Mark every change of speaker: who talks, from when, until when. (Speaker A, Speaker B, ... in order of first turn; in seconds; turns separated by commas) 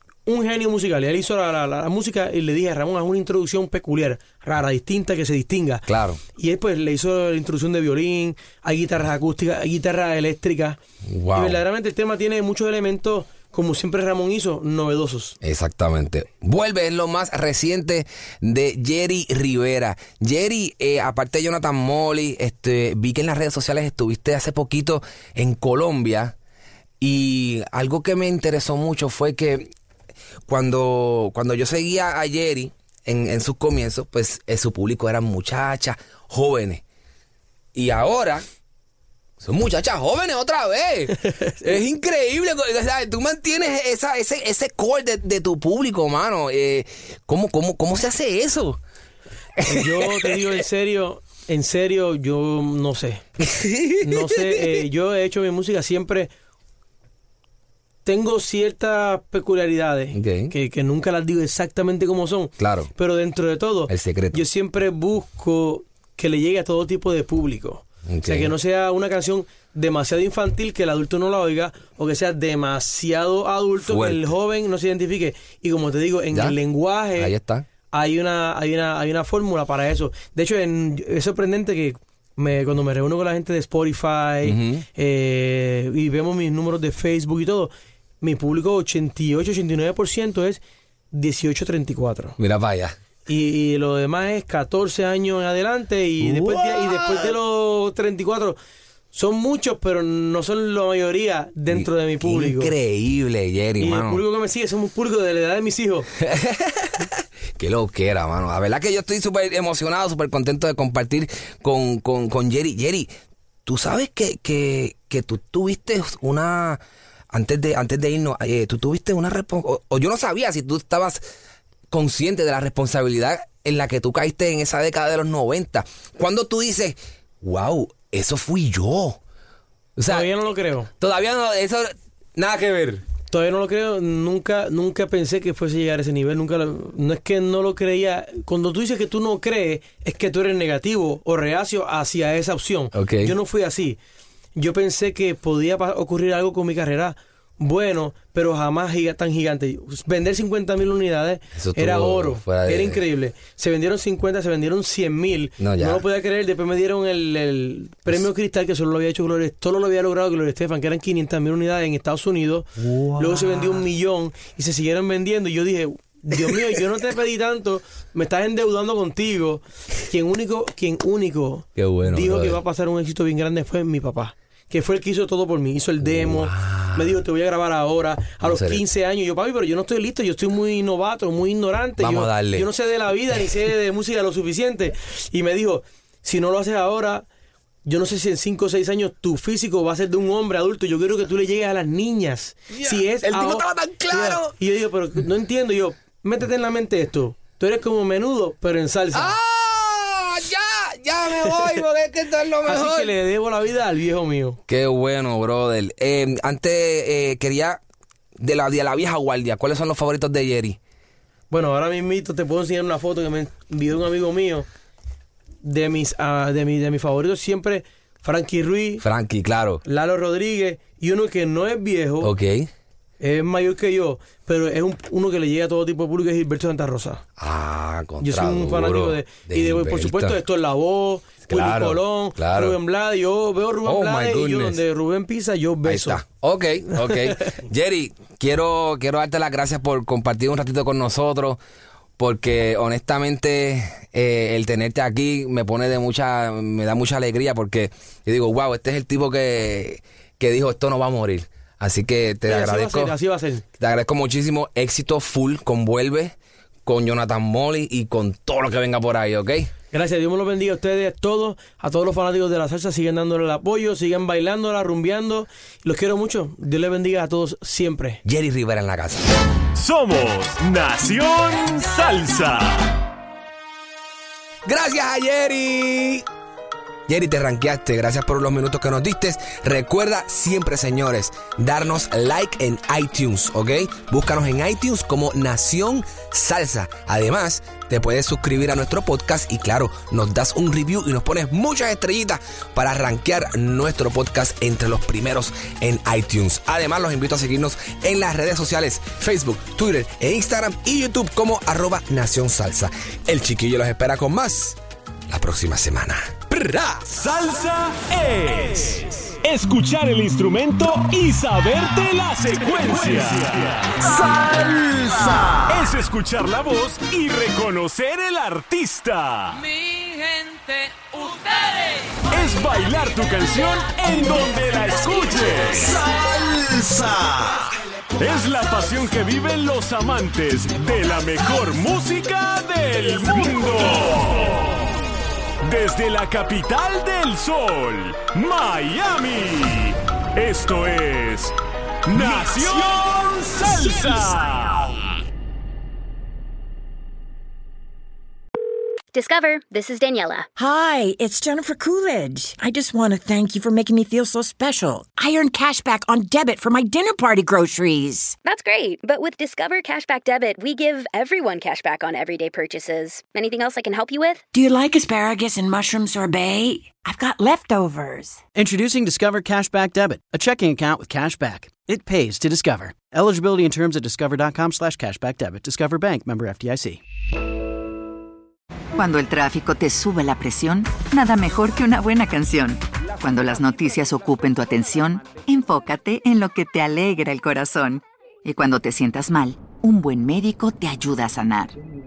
Speaker A: 0.2-10.8, Speaker B: 5.9-6.2, Speaker B: 11.1-11.6, Speaker A: 11.3-15.3, Speaker B: 15.4-26.3, Speaker B: 27.0-29.7, Speaker B: 30.5-36.8, Speaker B: 37.8-38.4, Speaker B: 39.4-48.8, Speaker A: 41.5-41.8, Speaker B: 49.6-50.3, Speaker A: 49.6-53.2, Speaker B: 53.5-54.8, Speaker A: 54.0-56.3, Speaker A: 58.0-77.3, Speaker B: 60.1-60.5, Speaker B: 62.6-62.9, Speaker B: 63.9-64.4, Speaker B: 68.1-68.5, Speaker B: 73.8-74.3, Speaker B: 76.3-76.6, Speaker B: 77.2-77.7, Speaker A: 77.9-92.4, Speaker B: 84.4-84.8, Speaker B: 92.4-93.0, Speaker A: 93.3-98.6, Speaker B: 96.2-96.7, Speaker A: 99.1-102.7, Speaker B: 101.7-104.2, Speaker A: 103.8-106.1, Speaker B: 106.3-113.1, Speaker B: 113.7-121.2, Speaker B: 121.9-129.2, Speaker B: 130.0-130.3, Speaker A: 130.1-130.9, Speaker B: 131.0-133.0, Speaker A: 133.3-144.0, Speaker B: 142.9-143.3, Speaker A: 144.6-187.3, Speaker B: 151.6-153.0, Speaker B: 155.6-156.0, Speaker B: 162.8-163.8, Speaker B: 171.8-172.6, Speaker B: 176.1-177.2, Speaker B: 178.4-178.8, Speaker B: 182.0-182.7, Speaker A: 187.8-199.3, Speaker B: 192.7-194.5, Speaker B: 199.1-203.1, Speaker A: 202.6-204.6, Speaker B: 204.7-207.8, Speaker B: 208.4-210.8, Speaker A: 211.5-214.7, Speaker A: 215.6-219.0, Speaker B: 219.0-219.8, Speaker A: 219.8-222.3, Speaker B: 222.2-222.7, Speaker A: 223.2-227.2, Speaker B: 227.4-230.4, Speaker A: 228.2-236.2, Speaker B: 231.5-232.8, Speaker B: 233.8-234.8, Speaker B: 235.8-241.6, Speaker A: 236.9-237.3, Speaker B: 242.2-253.2, Speaker A: 252.4-253.6, Speaker B: 253.8-256.3, Speaker B: 256.9-259.7, Speaker A: 259.9-268.2, Speaker B: 268.2-269.3, Speaker C: 269.8-272.9, Speaker B: 274.7-276.2, Speaker B: 277.1-304.8, Speaker B: 305.3-307.1, Speaker C: 307.1-319.7, Speaker C: 322.1-326.1, Speaker C: 326.7-327.4, Speaker C: 328.2-334.9, Speaker C: 335.6-341.5, Speaker C: 342.1-345.0, Speaker D: 349.1-350.5, Speaker E: 350.6-358.4, Speaker D: 358.4-364.4, Speaker E: 364.5-368.4, Speaker F: 368.6-377.0, Speaker G: 379.0-391.7